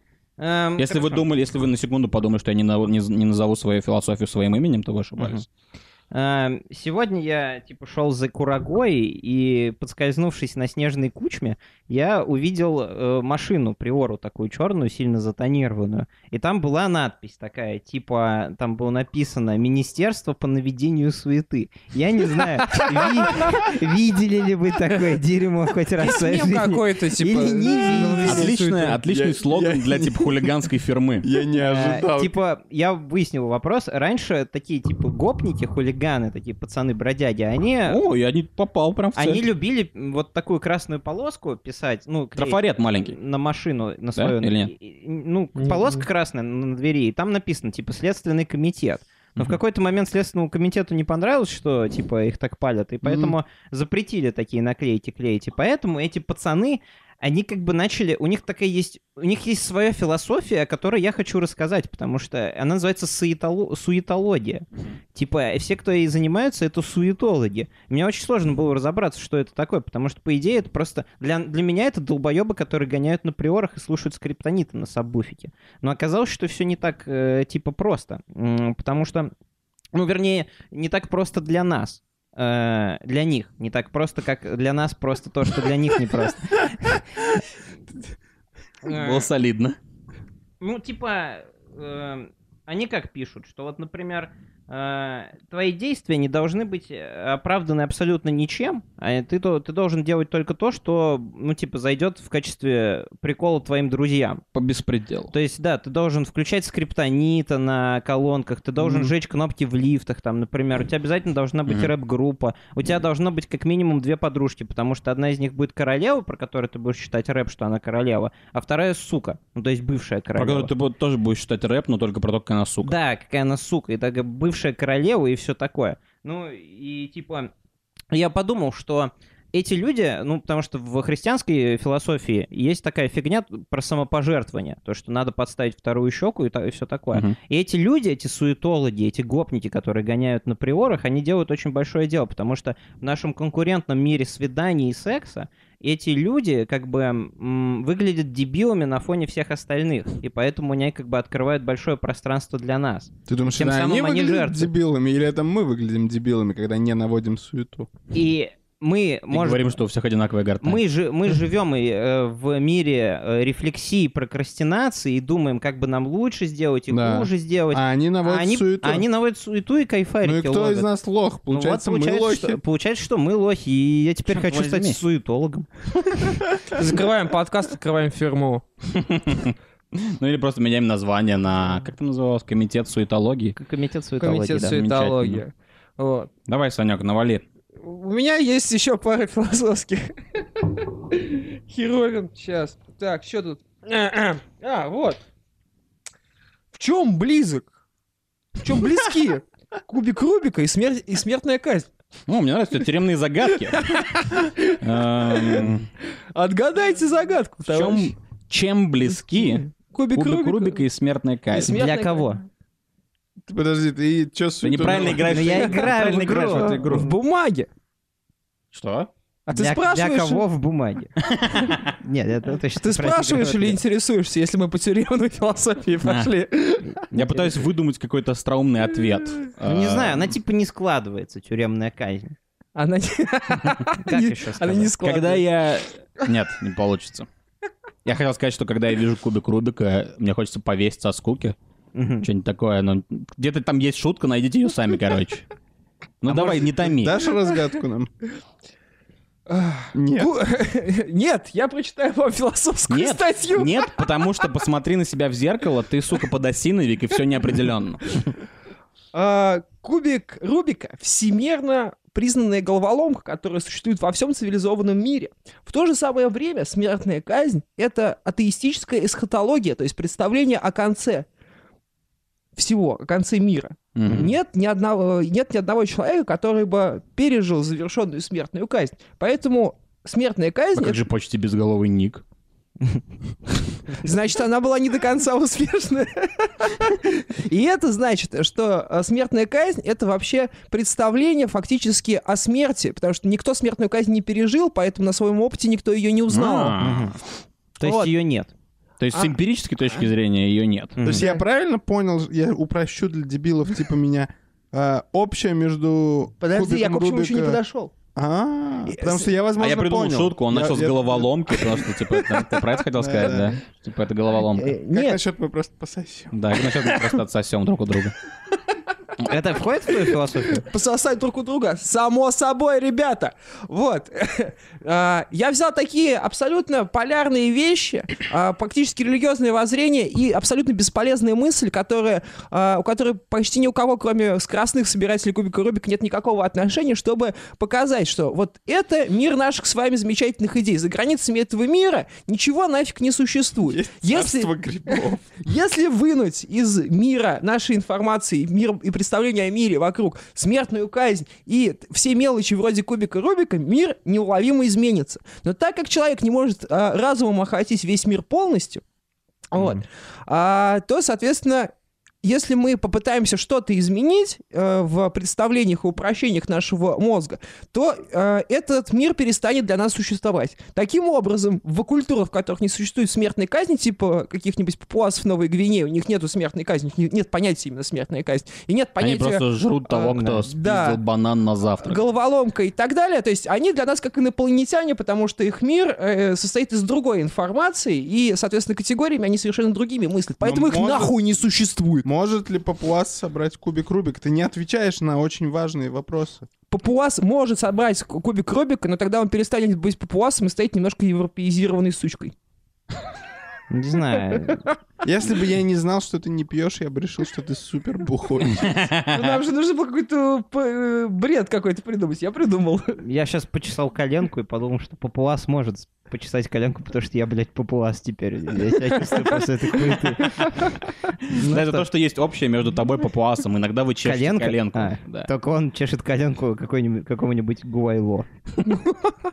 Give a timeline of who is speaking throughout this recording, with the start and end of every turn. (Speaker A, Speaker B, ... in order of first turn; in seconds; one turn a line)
Speaker A: 0.4-1.2
Speaker B: 0.8-5.5
Speaker A: 5.2-5.4
Speaker A: 6.1-28.5
Speaker C: 26.0-29.0
Speaker B: 28.2-31.3
Speaker D: 29.0-30.6
Speaker D: 31.2-32.4
Speaker A: 31.5-38.0
Speaker B: 37.9-39.4
Speaker A: 39.1-79.3
Speaker B: 42.4-43.1
Speaker B: 44.1-44.7
Speaker C: 45.6-46.0
Speaker D: 53.0-53.3
Speaker A: 79.9-87.2
Speaker B: 88.8-89.8
Speaker C: 88.9-89.2
Speaker A: 90.6-104.4
Speaker B: 104.5-105.3
Speaker A: 105.3-120.7
Speaker B: 108.8-109.1
Speaker B: 120.4-122.9
Speaker A: 122.8-127.5
Speaker A: 128.1-154.7
Speaker D: 153.3-157.9
Speaker A: 158.1-159.8
Speaker B: 159.3-160.8
Speaker A: 160.6-170.9
Speaker D: 166.9-169.1
Speaker D: 170.2-172.6
Speaker A: 171.5-176.4
Speaker B: 174.3-175.0
Speaker C: 176.7-178.6
Speaker B: 178.9-183.6
Speaker A: 183.6-184.8
Speaker C: 184.2-186.3
Speaker B: 184.7-185.4
Speaker B: 186.5-187.4
Speaker C: 187.8-195.2
Speaker C: 196.7-197.7
Speaker C: 198.6-201.9
Speaker B: 202.3-203.9
Speaker C: 203.7-204.8
Speaker B: 204.7-205.9
Speaker C: 205.3-205.7
Speaker C: 206.3-208.1
Speaker B: 207.7-211.8
Speaker C: 209.4-210.8
Speaker C: 211.5-212.4
Speaker A: 211.6-212.4
Speaker D: 213.5-215.7
Speaker B: 214.6-217.1
Speaker A: 215.1-217.1
Speaker C: 216.2-217.7
Speaker B: 218.7-219.1
Speaker C: 219.5-220.4
Speaker A: 219.5-221.2
Speaker B: 221.2-221.9
Speaker A: 221.9-223.8
Speaker C: 222.8-227.0
Speaker B: 226.0-226.3
Speaker A: 227.1-227.6
Speaker B: 227.1-230.3
Speaker A: 229.6-232.3
Speaker C: 232.7-235.4
Speaker A: 234.0-234.9
Speaker B: 235.0-237.3
Speaker B: 238.0-241.6
Speaker A: 241.9-242.3
Speaker B: 242.2-245.5
Speaker B: 246.2-247.2
Speaker D: 246.3-248.1
Speaker C: 249.5-253.9
Speaker D: 249.9-250.3
Speaker B: 252.9-258.2
Speaker C: 259.1-271.3
Speaker C: 272.6-281.0
Speaker B: 273.9-274.4
Speaker B: 280.8-282.2
Speaker C: 283.9-296.7
Speaker B: 296.3-297.1
Speaker A: 296.8-297.2
Speaker A: 297.8-298.5
Speaker C: 297.8-298.1
Speaker B: 299.0-301.0
Speaker C: 299.1-299.4
Speaker A: 301.0-301.3
Speaker D: 301.0-307.6
Speaker C: 306.4-307.9
Speaker D: 308.1-311.9
Speaker C: 308.9-309.3
Speaker B: 309.6-314.8
Speaker D: 312.9-313.6
Speaker C: 314.6-315.2
Speaker D: 314.8-316.3
Speaker B: 316.3-318.1
Speaker A: 319.2-320.6
Speaker C: 320.6-358.8
Speaker D: 343.7-345.2
Speaker C: 359.5-361.7
Speaker A: 359.6-359.8
Speaker C: 362.2-381.0
Speaker B: 379.0-382.0
Speaker C: 381.8-392.1
Speaker D: 390.4-391.1
Speaker D: 392.0-396.5
Speaker C: 396.7-402.3
Speaker A: 403.7-404.6
Speaker D: 405.0-408.9
Speaker B: 408.6-409.3
Speaker C: 409.1-413.0
Speaker A: 413.0-421.8
Speaker C: 420.2-420.7
Speaker B: 421.3-425.3
Speaker A: 424.0-428.3
Speaker C: 428.6-429.1